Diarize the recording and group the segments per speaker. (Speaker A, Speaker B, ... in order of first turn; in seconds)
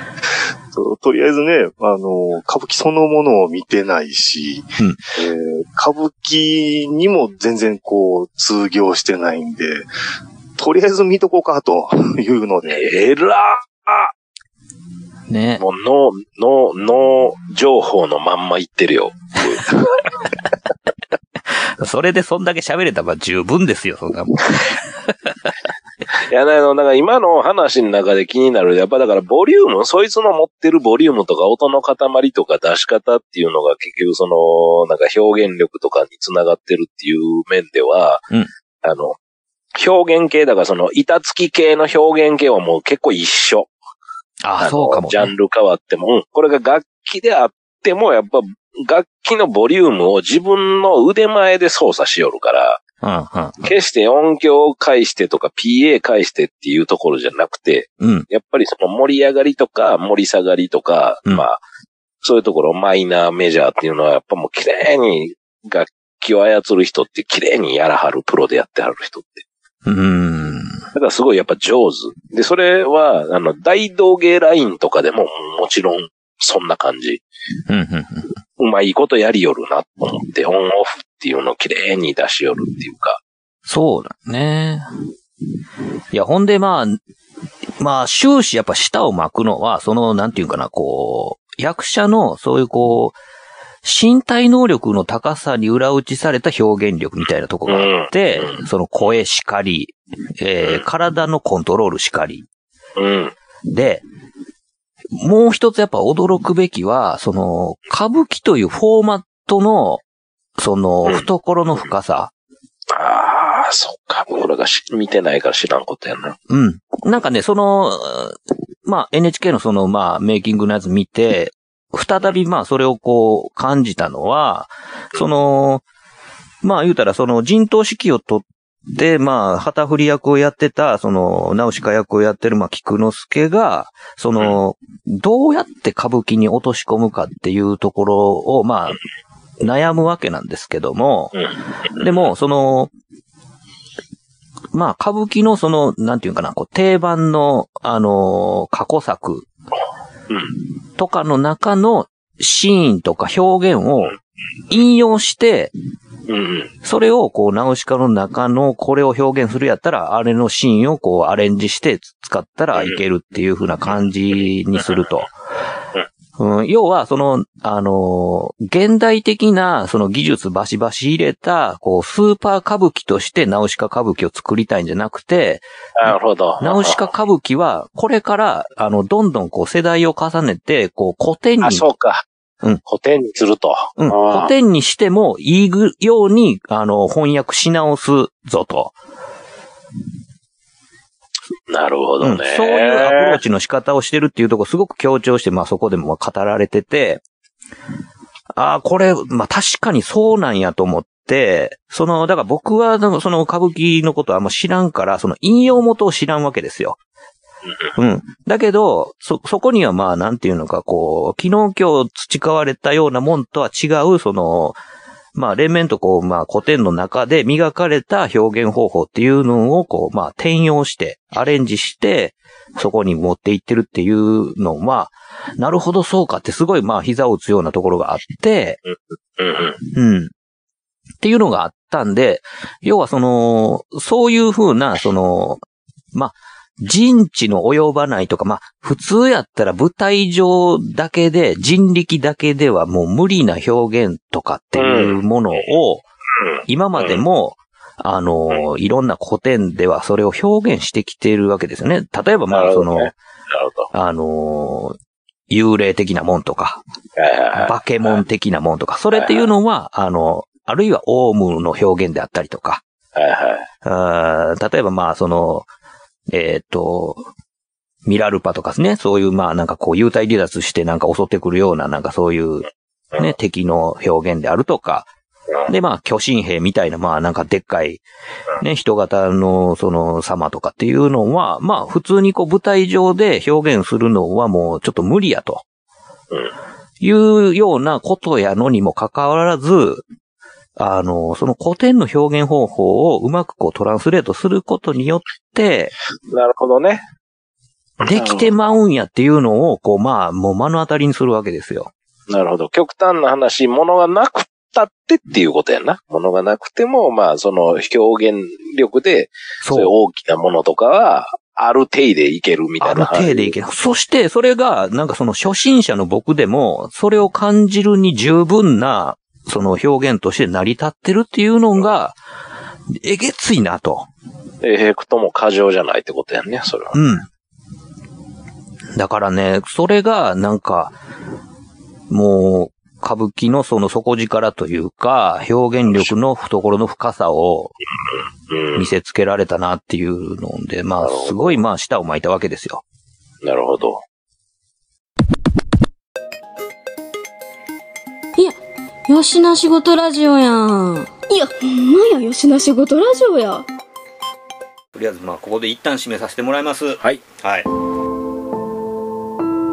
Speaker A: 0.7-9.9, 10.6-12.9
Speaker B: 12.7-14.1, 15.6-20.0, 26.2-38.2, 38.8-39.2, 39.7-43.7, 44.6-52.8, 53.6-61.6, 62.2-69.4, 70.9-77.2, 78.6-83.2, 97.7-98.6, 103.0-103.3, 112.9-116.4, 141.3-142.3, 150.3-150.6, 156.3-156.7, 175.9-177.1, 181.6-182.2, 182.8-184.5, 191.7-193.4, 228.9-229.8, 244.8-245.2, 246.4-247.2, 252.5-253.9, 257.2-258.2, 259.1-259.5, 263.1-263.7, 296.3-297.0, 298.0-298.5, 302.3-313.5, 324.6-327.0, 338.5-338.9, 341.0-341.6, 343.4-344.0
Speaker C: 15.3-15.6, 21.6-25.5, 44.4-45.3, 53.0-53.7, 58.0-58.3, 69.8-70.8, 77.7-78.3, 83.7-84.9, 86.1-87.0, 87.8-93.1, 93.8-102.5, 103.7-104.0, 105.1-110.0, 110.6-112.3, 116.5-125.8, 126.6-139.0, 139.6-141.4, 141.9-142.9, 144.7-149.5, 151.0-154.2, 154.7-155.7, 156.8-165.3, 166.4-181.8, 184.0-188.9, 192.2-197.2, 198.5-207.0, 208.0-214.8, 215.3-228.8, 229.9-230.3, 231.2-235.6, 236.1-246.0, 246.7-253.1, 253.9-254.9, 255.5-256.8, 257.5-262.8, 263.8-265.7, 266.3-267.3, 268.0-275.1, 275.7-278.0, 278.6-285.6, 287.0-290.0, 290.8-295.9, 298.0-301.9, 309.6-309.9, 312.8-322.2, 322.9-324.1, 326.9-327.3, 328.9-330.9, 332.1-337.7, 338.8-342.8, 354.9-357.7
Speaker D: 348.4-351.1
Speaker E: 351.3-353.6